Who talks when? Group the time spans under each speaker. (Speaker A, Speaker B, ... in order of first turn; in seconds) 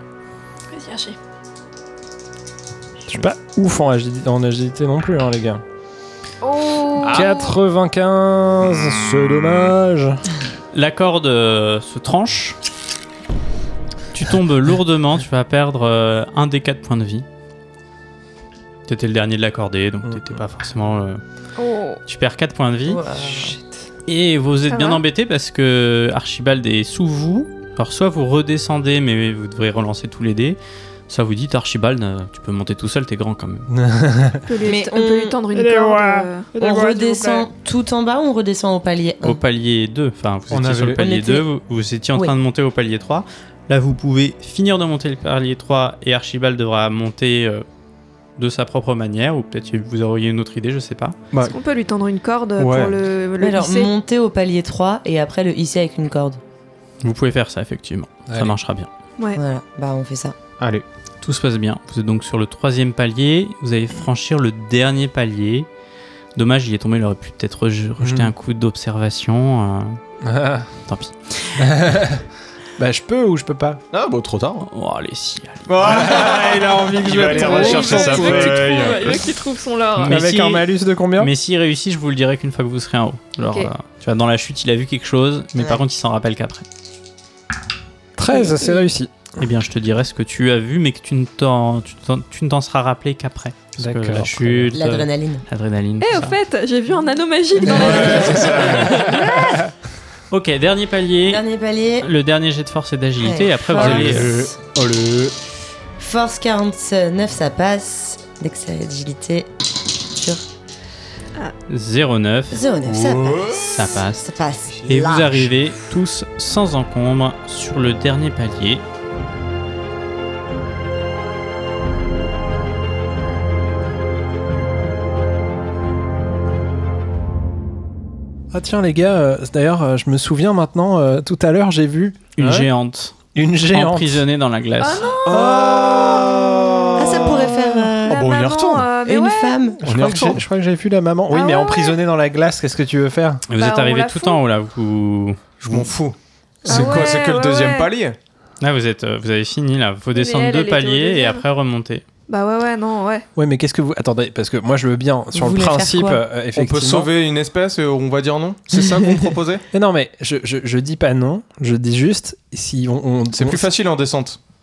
Speaker A: 0.7-1.2, 6.4-7.5, 21.6-22.0, 24.7-25.0, 34.5-36.5, 51.4-53.9, 77.2-80.2, 88.3-88.8, 96.0-99.2, 134.8-135.5, 138.0-139.7, 141.3-142.0, 143.6-144.4, 146.6-147.9, 150.2-151.4, 152.3-153.3
Speaker B: 3.1-5.6, 7.0-10.2, 33.7-34.5, 35.5-37.5, 58.3-58.6, 68.0-68.3, 70.2-70.7, 71.6-72.2, 72.8-73.8, 75.8-79.2, 80.0-81.3, 88.2-89.3, 93.8-94.7, 97.6-98.7, 128.5-132.3, 133.3-134.2, 135.3-136.2, 139.8-143.4, 146.6-147.1, 153.3-157.1, 159.7-163.7
Speaker C: 8.8-9.7, 40.5-41.0, 52.6-53.0, 60.6-60.8, 73.9-74.7, 75.7-79.2, 97.7-99.3, 103.7-105.3, 112.8-113.8, 114.7-115.5, 132.4-132.7, 135.2-138.9, 139.8-140.4, 145.6-148.2, 156.5-159.6, 163.3-164.4
Speaker D: 10.7-12.6, 14.1-17.2, 18.9-21.2, 22.1-23.0, 24.1-33.7, 39.2-47.6, 48.4-51.2, 57.0-58.9, 61.2-65.7, 66.3-70.0, 70.9-71.7, 74.6-75.7, 80.0-86.7, 89.4-96.3, 100.3-101.4, 102.0-104.3, 111.7-112.6, 113.7-114.3, 114.8-118.8, 132.3-133.2, 133.7-135.1, 143.5-145.9, 148.6-152.0
Speaker E: 22.9-23.6, 34.6-35.4, 36.6-39.4, 41.0-41.5, 53.4-56.4, 59.3-60.4, 85.6-85.8, 94.7-95.4, 97.6-99.7, 101.2-102.1, 103.2-104.6, 106.0-109.5, 110.1-110.4, 112.5-115.2, 137.0-140.3, 155.3-156.2